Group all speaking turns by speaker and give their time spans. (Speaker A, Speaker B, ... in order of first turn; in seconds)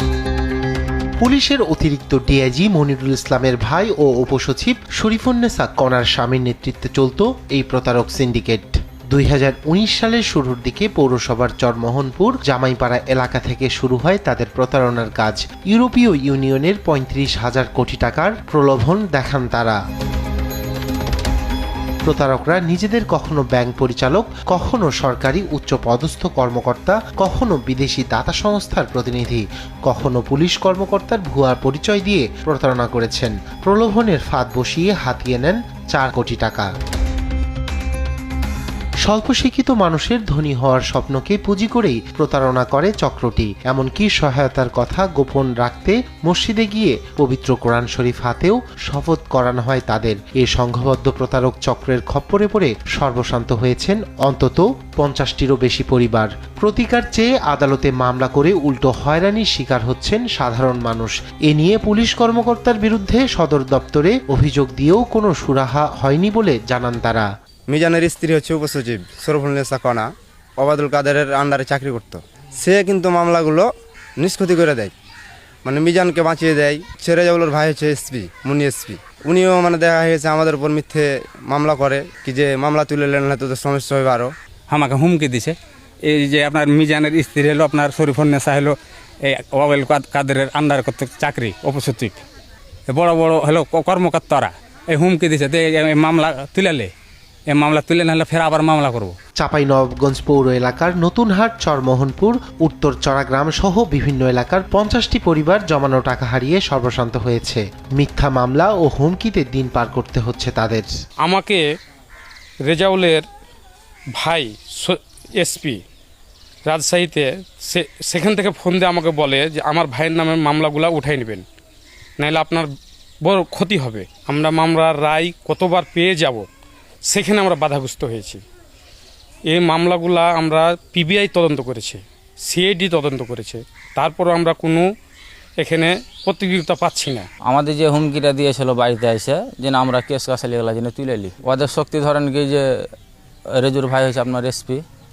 Speaker A: 1.2-19.8, 22.0-36.7, 39.0-67.3, 99.4-110.9
Speaker B: 67.7-70.0, 70.6-73.7, 74.2-74.9, 75.7-84.3
Speaker C: 84.7-92.2, 92.9-96.9, 97.5-99.2
Speaker D: 111.2-111.6, 112.7-113.2, 114.2-115.8, 116.7-121.4, 122.2-122.7, 123.2-126.5, 127.1-128.4, 129.5-134.9, 135.6-137.3
Speaker E: 137.4-142.8, 143.6-144.8